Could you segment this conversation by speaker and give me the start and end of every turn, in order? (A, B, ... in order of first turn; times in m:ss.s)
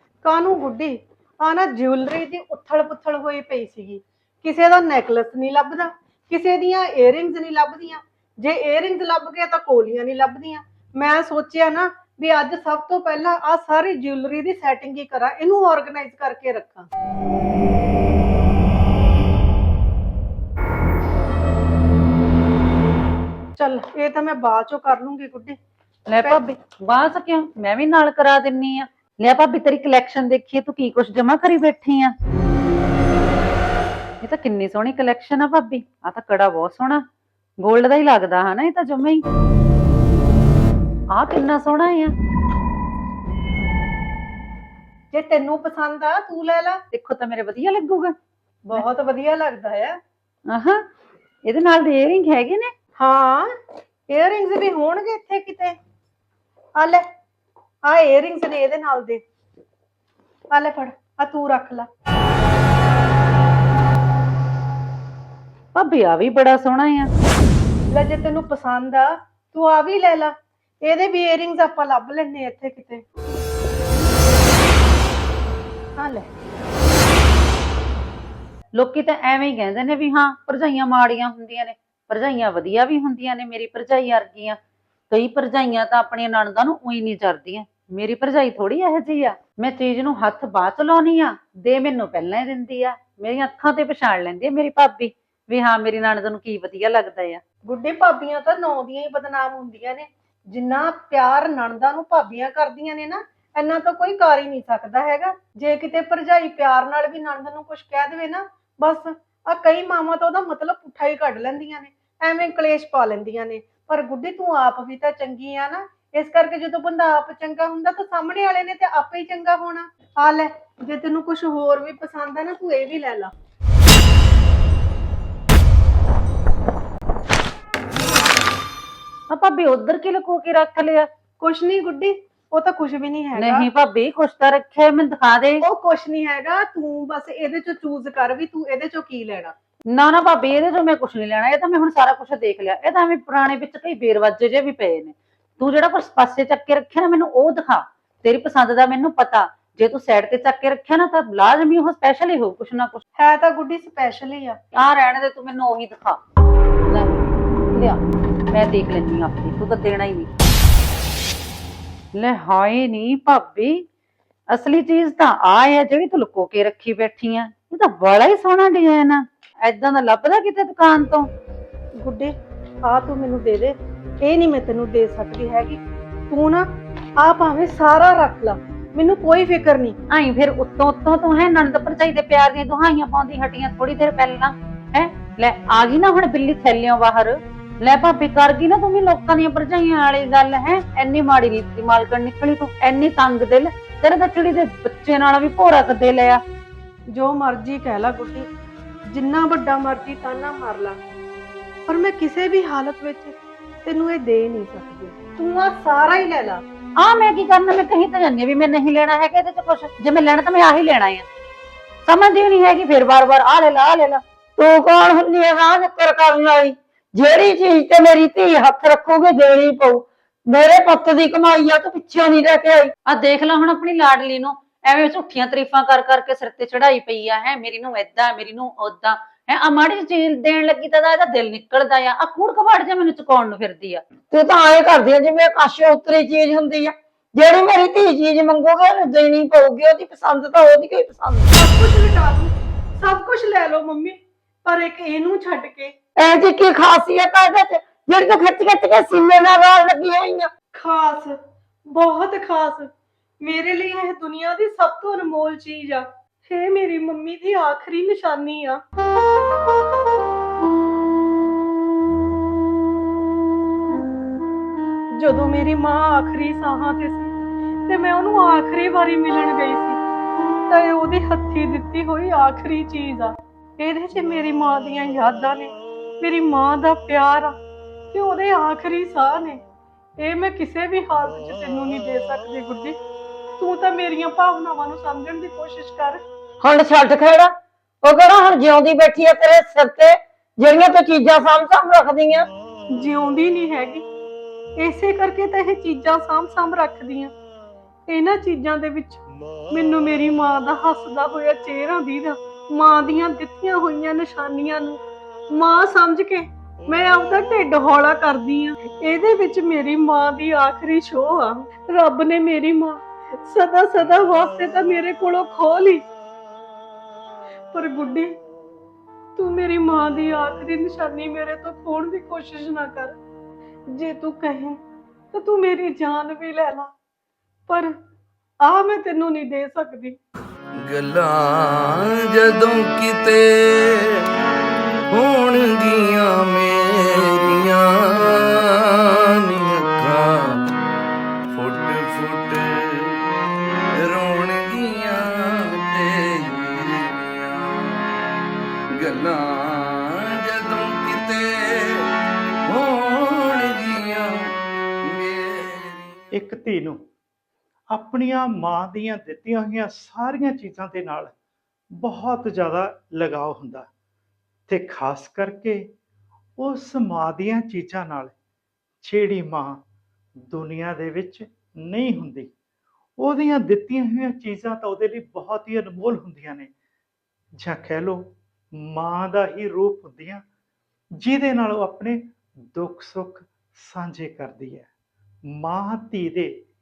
0:00.2-0:16.9 A
0:23.6-0:25.6 A
0:26.1-0:32.1 B
0:34.2-0:37.0 B
0:37.6-0:39.2 B
0:41.1-0:42.1 B
0:45.1-0:46.8 A
0:46.9-0:48.1 B
0:48.6-0:50.0 A
0:50.5-0:50.8 B
0:51.4-0:52.7 B
0:53.0-0:53.5 A
0:54.1-0:55.8 A
0:56.8-0:57.0 A
0:57.8-0:59.2 A
1:00.5-1:01.9 A
1:05.7-1:07.1 B
1:07.9-1:13.0 A
1:16.0-1:16.3 A
1:18.7-1:24.6 B
1:25.1-1:37.4 B
1:37.6-2:03.3 A
2:09.3-2:11.1 B
2:11.4-2:13.7 A
2:13.4-2:15.6 B
2:15.6-2:19.5 A
2:19.9-2:33.0 B
2:33.2-2:34.6 A
2:34.7-2:36.2 B
2:36.8-2:37.2 B
2:37.7-2:40.3 B
2:42.1-2:43.8 B
2:44.5-2:51.3 B
2:52.0-3:00.0 A
3:00.1-3:16.4 B
3:17.1-3:18.5 A
3:19.1-3:21.0 A
3:21.9-3:26.6 A
3:27.0-3:31.2 B
3:32.0-3:34.2 B
3:34.6-3:42.9 C
3:43.1-3:54.0 B
3:54.3-4:01.5 C
4:01.5-4:05.9 A
4:06.2-4:10.5 C
4:10.7-4:11.4 A
4:11.9-4:12.9 A
4:13.4-4:18.8 A
4:25.2-4:27.3 A
4:27.9-4:30.0 A
4:30.7-4:37.6 A
4:38.1-4:39.6 A
4:40.2-4:43.0 A
4:43.6-4:46.2 A
4:46.6-4:52.5 C
4:52.9-4:54.0 A
4:54.8-4:57.3 A
4:58.1-5:05.0 A
5:05.5-5:16.1 A
5:17.7-5:18.3 A
5:19.4-5:23.2 A
5:23.9-5:24.8 A
5:25.3-5:26.9 A
5:27.7-5:27.9 A
5:28.6-5:30.2 A
5:30.8-5:34.2 D
5:35.1-5:40.6 D
5:41.5-5:43.2 D
5:44.0-5:47.9 D
5:49.0-5:52.0 D
5:52.7-5:54.4 D
5:55.1-5:56.2 D
5:56.3-5:57.0 E
5:57.9-6:01.3 E
6:02.0-6:03.9 E
6:04.7-6:05.9 E
6:06.6-6:08.3 E
6:09.0-6:09.8 E
6:10.5-6:12.5 E
6:13.2-6:16.7 E
6:17.6-6:20.4 E
6:21.2-6:24.9 E
6:25.5-6:26.6 E